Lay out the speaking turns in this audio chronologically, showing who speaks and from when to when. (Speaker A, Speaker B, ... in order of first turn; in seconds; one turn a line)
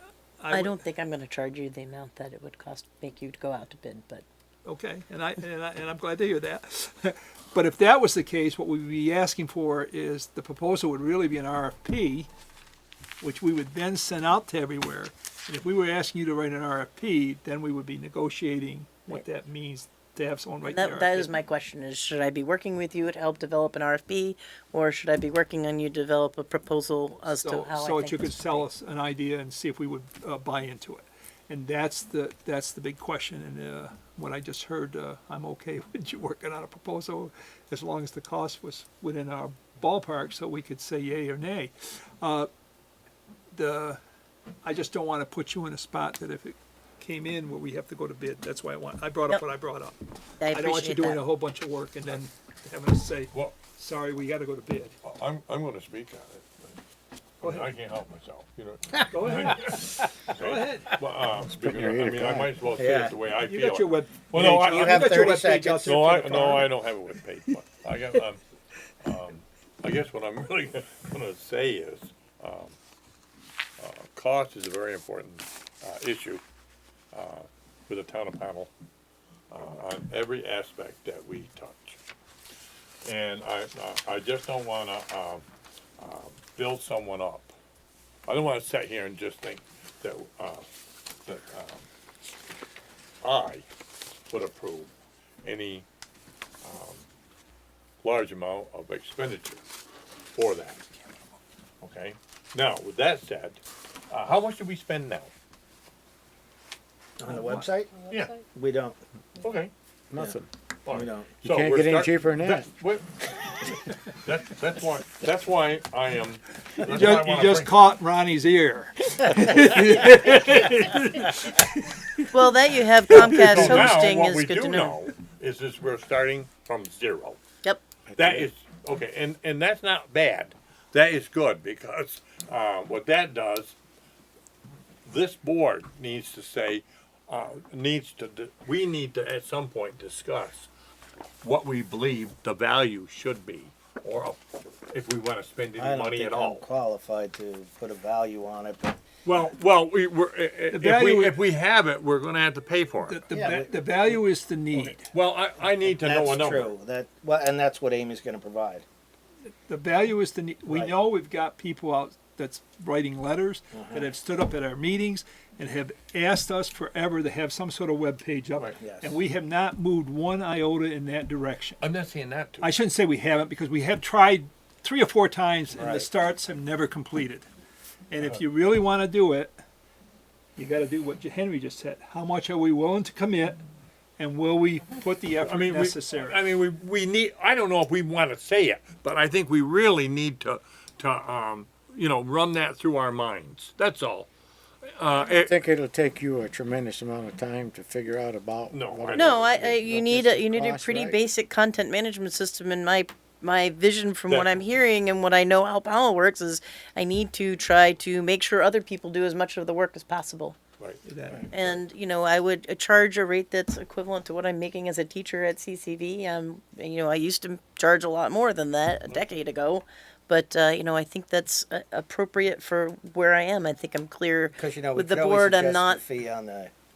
Speaker A: 0.4-0.8
Speaker B: 0.5-4.2
Speaker A: 4.6-12.3
Speaker A: 13.2-21.3
Speaker B: 20.7-28.6
Speaker A: 27.3-42.5
Speaker A: 43.5-44.0
Speaker A: 44.6-50.0
Speaker B: 50.4-51.2
Speaker A: 50.5-55.0
Speaker C: 53.3-53.6
Speaker C: 55.0-56.8
Speaker C: 57.4-68.4
Speaker A: 57.4-57.7
Speaker A: 59.1-59.7
Speaker A: 60.4-60.9
Speaker D: 61.4-62.6
Speaker E: 62.7-63.1
Speaker A: 63.4-66.7
Speaker E: 64.3-66.7
Speaker C: 69.0-72.8
Speaker C: 73.8-76.4
Speaker C: 77.1-78.7
Speaker C: 79.5-82.0
Speaker C: 83.0-85.4
Speaker C: 86.0-87.5
Speaker C: 88.3-90.7
Speaker C: 91.2-91.8
Speaker C: 93.2-93.7
Speaker C: 94.3-94.9
Speaker C: 95.4-95.9
Speaker C: 96.6-97.0
Speaker C: 98.0-99.6
Speaker C: 100.3-100.8
Speaker C: 101.8-105.3
Speaker E: 107.2-109.0
Speaker A: 107.3-107.6
Speaker C: 108.1-108.4
Speaker C: 109.4-109.7
Speaker D: 110.1-110.5
Speaker C: 110.8-117.8
Speaker E: 110.9-111.3
Speaker D: 111.4-112.7
Speaker A: 116.8-122.3
Speaker B: 122.3-125.0
Speaker A: 123.1-124.0
Speaker C: 123.2-127.4
Speaker D: 128.1-128.5
Speaker C: 128.2-133.8
Speaker C: 135.1-140.7
Speaker C: 141.4-146.7
Speaker E: 145.7-149.0
Speaker C: 149.2-153.2
Speaker A: 150.7-151.4
Speaker A: 153.0-155.1
Speaker E: 153.3-154.2
Speaker C: 155.0-156.7
Speaker E: 155.8-158.8
Speaker A: 159.7-171.8
Speaker E: 160.7-160.9
Speaker E: 163.7-164.1
Speaker E: 168.8-169.2
Speaker C: 171.8-172.7
Speaker A: 172.6-177.5
Speaker E: 175.7-176.1
Speaker A: 178.1-179.6
Speaker A: 180.6-183.6
Speaker A: 184.2-186.4
Speaker C: 185.4-194.3
Speaker C: 194.9-195.6
Speaker D: 195.3-201.2
Speaker C: 198.7-199.4
Speaker B: 199.1-210.6
Speaker C: 204.3-204.5
Speaker A: 211.0-211.7
Speaker B: 211.5-226.0
Speaker E: 224.6-226.7